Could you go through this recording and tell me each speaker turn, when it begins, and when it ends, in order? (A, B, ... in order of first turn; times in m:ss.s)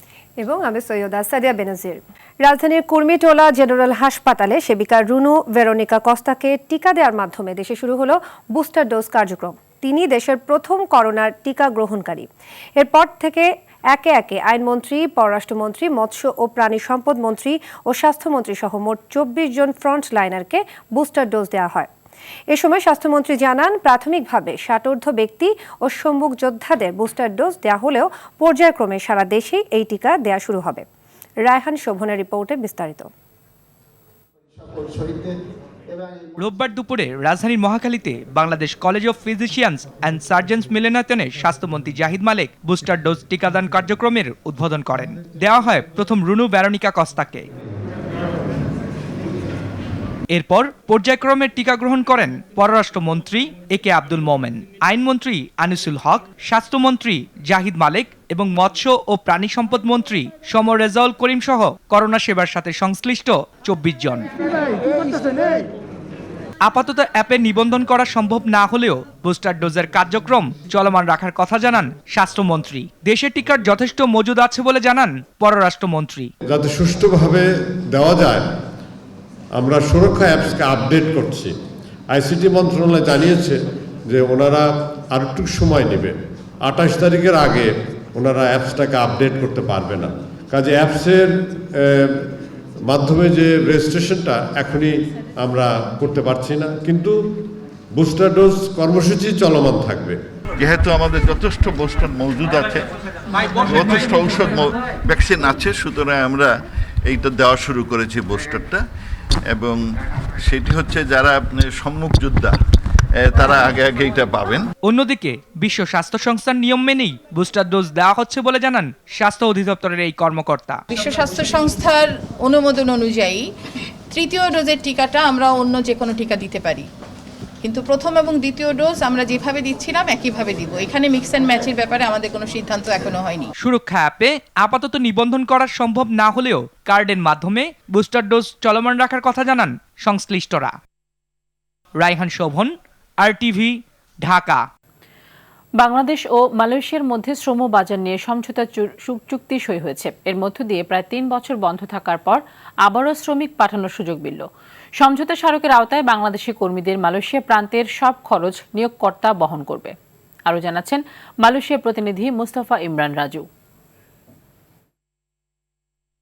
0:00.4-0:12.3 A
0:12.8-0:21.9 A
0:22.5-0:30.8 A
0:31.4-0:33.1 A
0:36.4-0:47.5 B
0:50.3-1:04.3 B
1:06.7-1:16.3 B
1:16.5-1:18.5 C
1:19.6-1:21.6 C
1:22.1-1:23.6 C
1:24.1-1:32.3 C
1:32.9-1:37.2 C
1:38.0-1:40.2 C
1:40.6-1:42.8 D
1:43.6-1:46.5 D
1:47.1-1:48.8 D
1:49.5-1:49.8 D
1:50.5-1:52.6 D
1:53.3-1:54.6 D
1:54.9-2:00.8 B
2:00.9-2:03.5 E
2:04.1-2:06.9 E
2:07.6-2:13.5 E
2:13.6-2:20.8 B
2:22.0-2:24.6 B
2:25.8-2:34.5 F
2:35.0-2:40.0 F
2:40.5-2:43.5 F